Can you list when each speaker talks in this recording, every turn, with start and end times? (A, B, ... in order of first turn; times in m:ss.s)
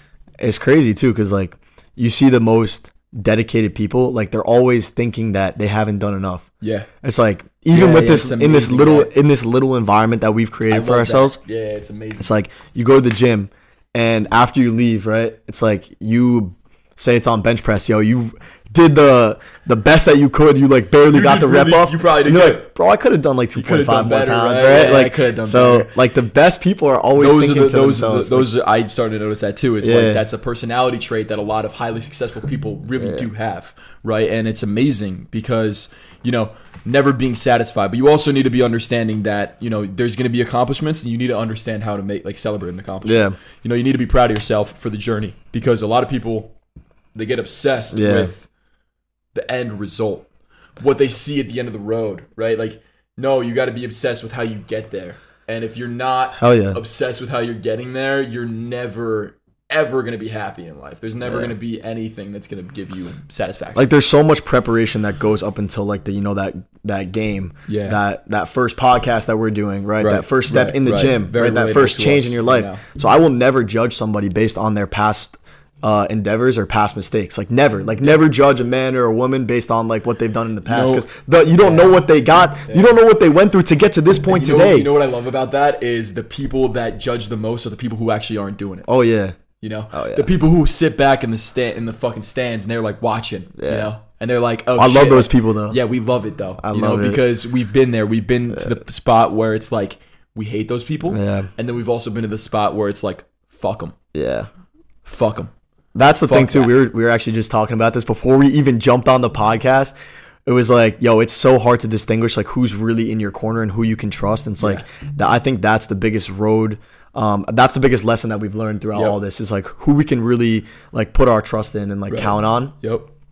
0:00.4-0:06.5 A
0:06.6-0:06.9 B
0:07.0-0:11.4 A
0:07.7-0:09.1 B
0:10.7-0:12.4 B
0:12.2-0:28.5 A
0:21.1-0:22.7 B
0:23.5-0:25.9 B
0:27.2-0:46.5 B
0:29.8-0:30.2 A
0:33.0-0:33.3 A
0:43.0-0:43.3 A
0:47.1-0:48.5 B
0:47.9-0:48.3 A
0:49.3-0:50.3 B
0:50.8-1:03.8 B
0:56.4-0:56.8 A
1:01.2-1:01.5 A
1:03.7-1:24.9 A
1:07.7-1:08.0 B
1:10.0-1:12.8 B
1:20.6-1:21.0 B
1:21.6-1:22.0 B
1:22.7-1:22.9 B
1:24.3-1:28.8 B
1:28.8-1:29.4 A
1:29.6-1:43.9 B
1:29.9-1:30.3 A
1:33.6-1:33.9 A
1:34.8-1:35.8 A
1:36.6-1:37.2 A
1:41.1-1:41.5 A
1:44.1-1:44.5 A
1:45.0-1:45.5 B
1:45.9-1:49.9 A
1:46.3-1:46.7 B
1:50.4-2:02.7 A
1:54.6-1:54.8 B
2:02.1-2:03.1 B